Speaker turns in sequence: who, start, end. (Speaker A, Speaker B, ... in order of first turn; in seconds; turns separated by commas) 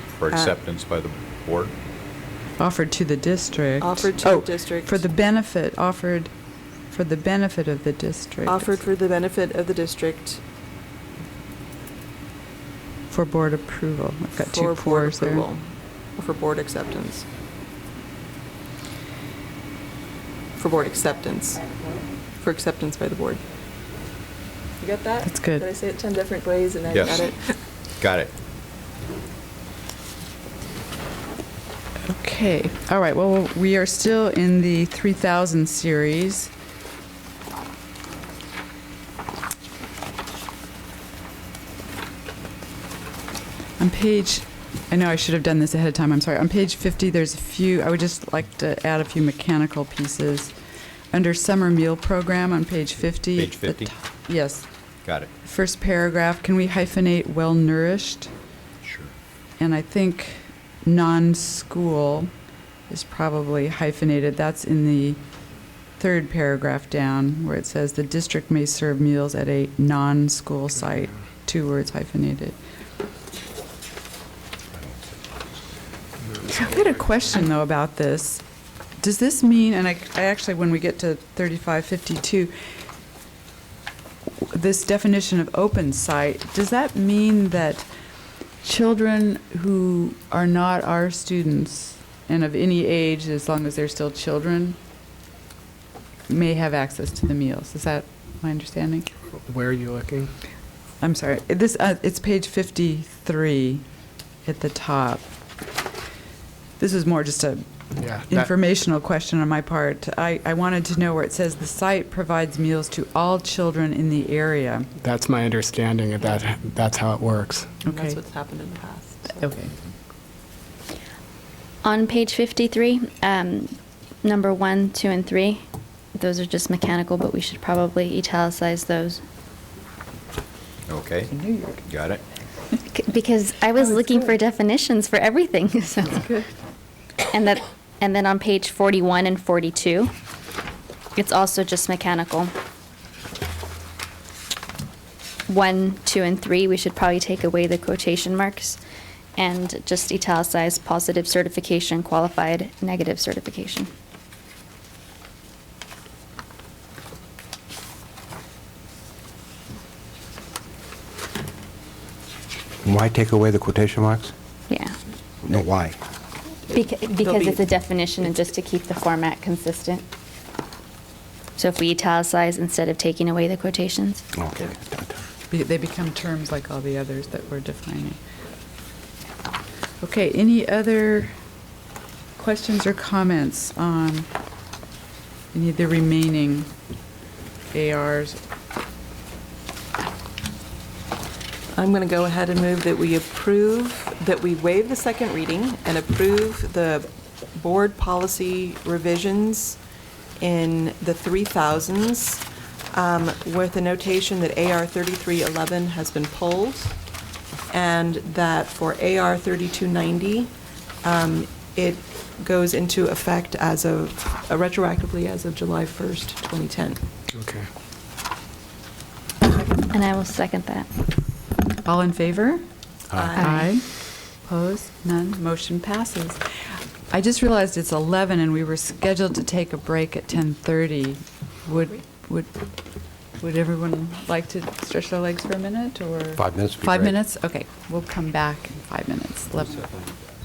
Speaker A: 0.2-1.7, Speaker B: 0.3-0.6, Speaker C: 2.6-6.3, Speaker B: 3.8-5.0, Speaker C: 6.9-8.8, Speaker B: 8.4-10.4, Speaker C: 13.1-15.4, Speaker B: 14.4-15.6, Speaker B: 16.1-17.2, Speaker B: 20.6-21.7, Speaker B: 22.4-23.4, Speaker B: 24.8-27.4, Speaker C: 25.2-25.6, Speaker A: 26.9-27.2, Speaker A: 28.0-28.3, Speaker C: 32.1-36.5, Speaker C: 43.8-50.5, Speaker C: 51.1-54.6, Speaker A: 53.3-53.9, Speaker A: 55.0-55.3, Speaker C: 55.4-58.3, Speaker A: 58.8-59.1, Speaker C: 59.6-62.3, Speaker C: 62.9-65.2, Speaker C: 66.0-72.5, Speaker D: 76.3-76.8, Speaker C: 76.6-78.4, Speaker C: 79.0-82.5, Speaker C: 84.4-87.9, Speaker C: 88.6-94.8, Speaker C: 96.3-99.1, Speaker D: 99.4-100.3, Speaker C: 101.0-103.8, Speaker C: 104.5-105.2, Speaker C: 106.8-107.7, Speaker D: 108.0-108.5, Speaker C: 108.2-114.9, Speaker D: 115.0-117.7, Speaker C: 117.8-118.2, Speaker B: 117.8-119.5, Speaker C: 119.4-119.7, Speaker E: 121.8-129.2, Speaker A: 130.9-131.3, Speaker C: 131.3-131.8, Speaker A: 131.8-132.2, Speaker E: 132.9-136.2, Speaker C: 136.2-136.4, Speaker E: 137.3-140.1, Speaker E: 141.2-142.5, Speaker E: 145.5-148.8, Speaker E: 149.4-153.9, Speaker F: 163.0-164.3, Speaker F: 165.4-165.9, Speaker B: 166.7-167.6, Speaker E: 166.7-170.0, Speaker E: 171.6-174.2, Speaker F: 174.3-175.2, Speaker C: 175.5-178.2, Speaker C: 180.0-181.3, Speaker C: 182.4-184.3, Speaker C: 185.5-186.7, Speaker C: 187.7-188.4, Speaker B: 191.7-199.8, Speaker B: 200.4-207.0, Speaker B: 207.7-210.5, Speaker B: 211.0-217.0, Speaker D: 217.3-217.7, Speaker E: 219.9-220.9, Speaker C: 221.8-222.6, Speaker B: 223.1-223.7, Speaker E: 223.4-223.7, Speaker C: 223.4-223.8, Speaker C: 224.4-226.4, Speaker C: 227.1-232.5, Speaker C: 233.4-239.8, Speaker F: 236.4-237.0